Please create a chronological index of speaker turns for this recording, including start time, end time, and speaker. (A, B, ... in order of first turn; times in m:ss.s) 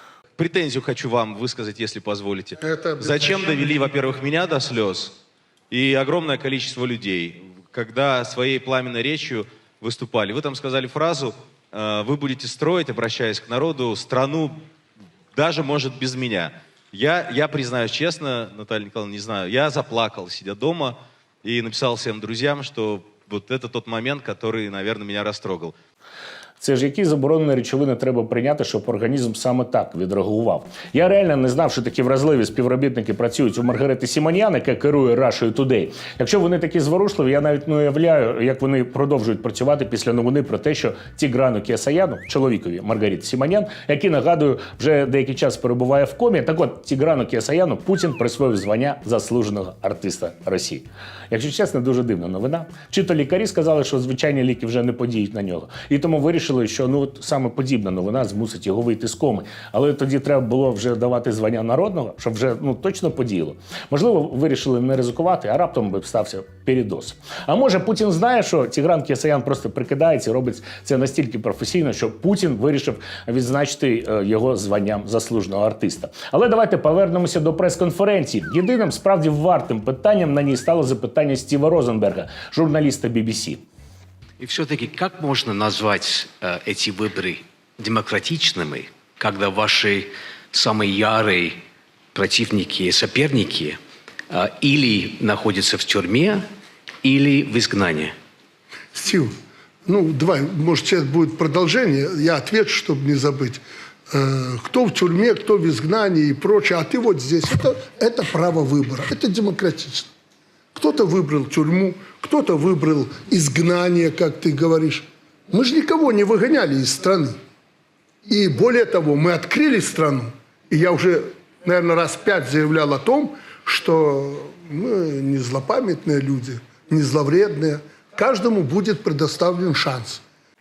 0:00.4-0:05.1 A
0:02.6-0:03.6 B
0:05.7-0:14.6 A
0:15.3-0:25.7 A
0:26.6-1:23.6 C
1:24.4-1:31.6 D
1:32.2-1:33.8 D
1:34.3-1:36.5 D
1:37.0-1:38.1 D
1:38.9-1:39.3 B
1:39.9-1:50.1 B
1:50.8-1:57.4 B
1:58.3-2:10.2 B